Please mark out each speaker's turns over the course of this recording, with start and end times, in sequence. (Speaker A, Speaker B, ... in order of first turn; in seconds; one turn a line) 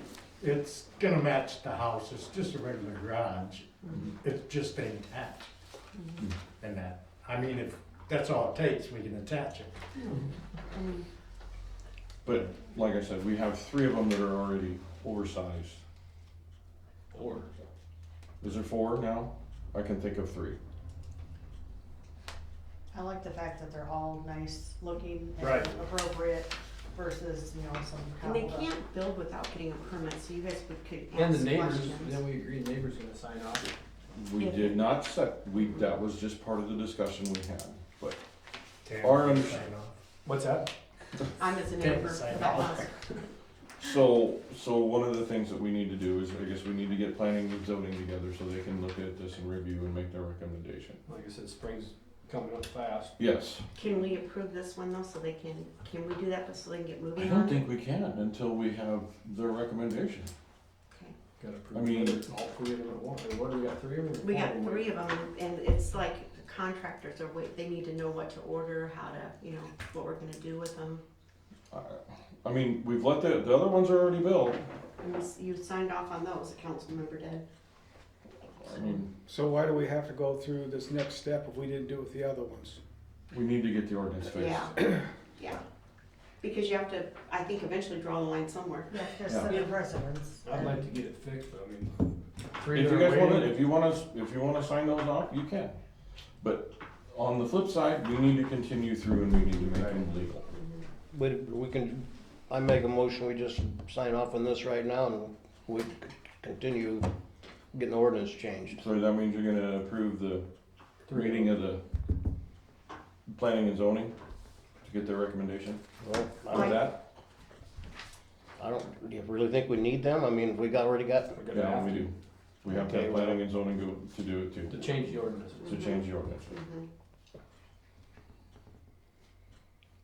Speaker A: 0.4-5.5
Speaker B: 5.9-6.2
Speaker A: 6.6-9.8
Speaker B: 10.7-11.0
Speaker C: 12.2-15.8
Speaker D: 17.1-17.5
Speaker C: 18.4-20.6
Speaker E: 22.9-28.7
Speaker D: 25.4-25.7
Speaker B: 28.2-32.2
Speaker D: 31.1-33.7
Speaker C: 34.1-38.2
Speaker B: 34.4-35.0
Speaker A: 38.8-40.0
Speaker C: 39.0-39.6
Speaker D: 40.2-40.7
Speaker B: 41.4-43.2
Speaker A: 41.8-42.9
Speaker C: 43.8-51.0
Speaker D: 51.0-53.1
Speaker C: 53.2-53.7
Speaker B: 53.7-57.6
Speaker C: 57.1-60.3
Speaker D: 61.4-64.9
Speaker C: 61.7-62.3
Speaker B: 64.2-71.0
Speaker C: 71.7-74.6
Speaker B: 75.0-77.4
Speaker C: 78.6-79.1
Speaker F: 79.3-82.8
Speaker C: 83.3-84.8
Speaker B: 84.3-84.7
Speaker B: 85.4-85.6
Speaker B: 86.4-89.7
Speaker E: 88.9-90.8
Speaker D: 90.4-93.6
Speaker C: 92.7-95.7
Speaker C: 96.4-100.5
Speaker B: 100.5-100.8
Speaker G: 101.1-107.1
Speaker G: 107.7-108.8
Speaker C: 108.7-110.5
Speaker D: 111.1-111.5
Speaker C: 111.1-111.8
Speaker C: 113.3-114.1
Speaker C: 114.8-115.8
Speaker G: 116.0-116.9
Speaker C: 116.5-117.0
Speaker B: 116.5-116.9
Speaker G: 118.5-121.3
Speaker D: 121.3-122.1
Speaker C: 121.5-126.5
Speaker G: 122.7-123.4
Speaker D: 124.7-125.6
Speaker B: 125.6-126.9